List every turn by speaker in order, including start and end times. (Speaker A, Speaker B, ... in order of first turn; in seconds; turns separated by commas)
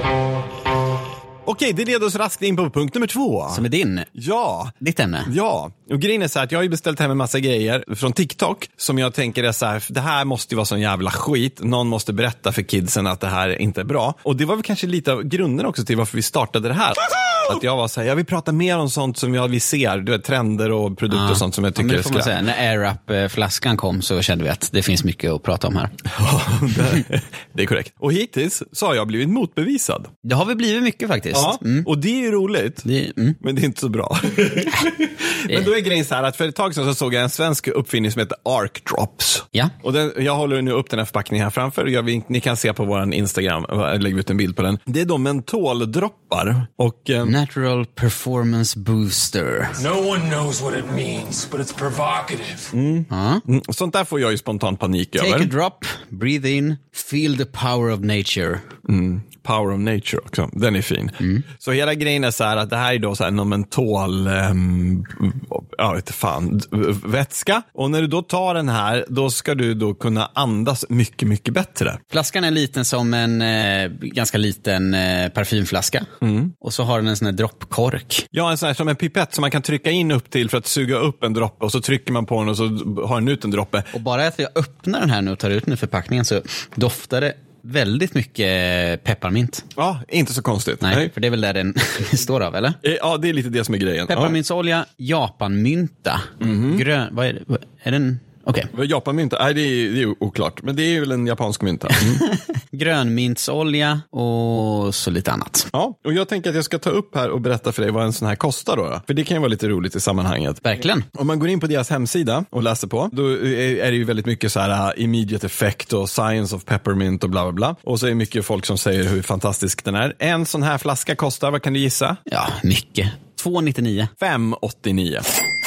Speaker A: 1.4-22.4, Speaker B: 3.5-4.1, Speaker B: 4.8-5.3, Speaker B: 21.1-25.9, Speaker A: 26.1-30.1, Speaker B: 30.2-31.9, Speaker A: 31.3-32.9, Speaker B: 32.9-33.4, Speaker A: 33.4-47.4, Speaker B: 47.2-49.8, Speaker C: 49.8-52.7, Speaker A: 52.7-55.5, Speaker B: 53.1-53.4, Speaker B: 55.2-58.6, Speaker A: 58.9-72.0, Speaker B: 72.1-78.3, Speaker A: 76.2-76.5, Speaker A: 78.3-83.9, Speaker B: 83.9-89.7, Speaker A: 89.8-91.1, Speaker B: 90.8-92.8, Speaker A: 92.8-94.4, Speaker B: 94.1-98.7, Speaker A: 96.4-96.8, Speaker A: 98.7-102.2, Speaker B: 102.0-105.7, Speaker A: 105.7-122.2, Speaker B: 110.6-111.1, Speaker B: 122.3-124.1, Speaker A: 124.2-125.3